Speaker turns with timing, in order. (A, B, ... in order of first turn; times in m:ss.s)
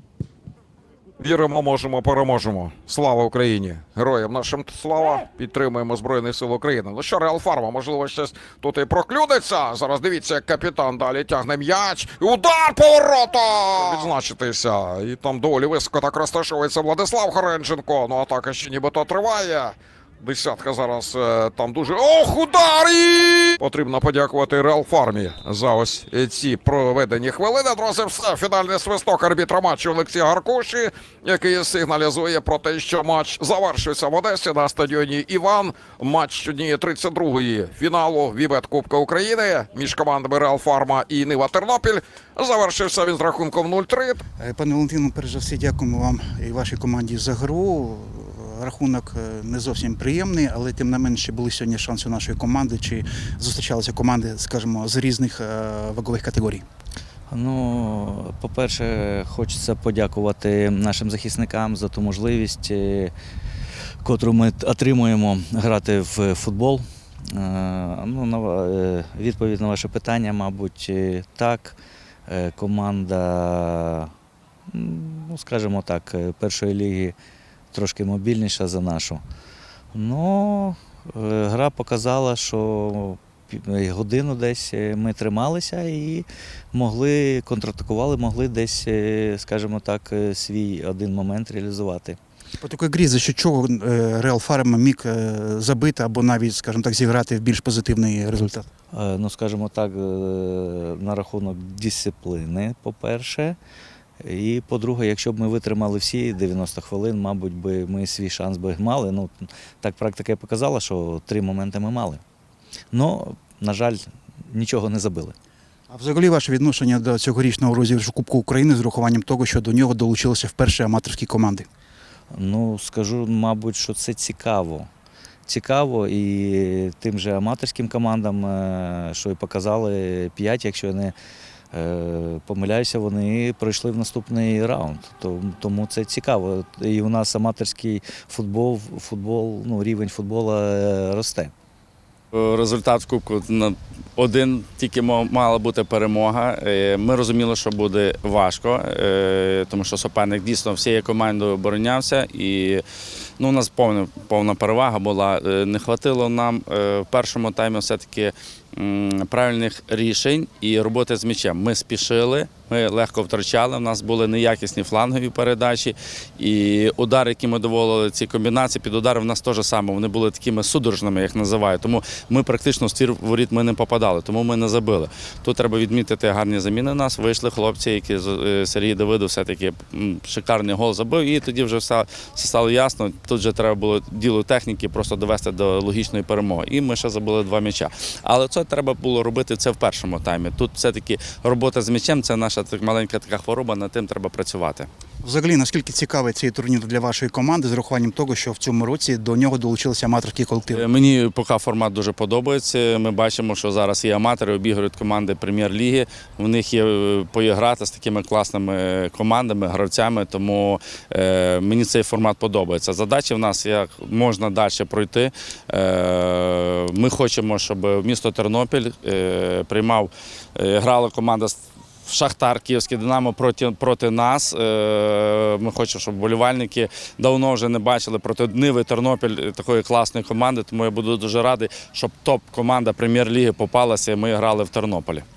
0:01.2-0:44.2 A
0:44.4-0:56.6 B
0:57.3-1:03.1 C
1:04.0-1:14.1 C
1:14.7-1:17.2 C
1:17.7-1:19.2 C
1:19.9-1:32.2 C
1:32.6-1:38.7 B
1:38.9-1:43.6 C
1:44.2-1:52.2 C
1:52.9-1:55.4 C
1:55.9-2:01.7 B
2:02.3-2:04.9 C
2:05.5-2:11.1 C
2:11.7-2:21.5 C
2:22.3-2:32.8 D
2:33.4-3:14.9 D
3:15.2-3:20.9 B
3:20.7-3:55.3 D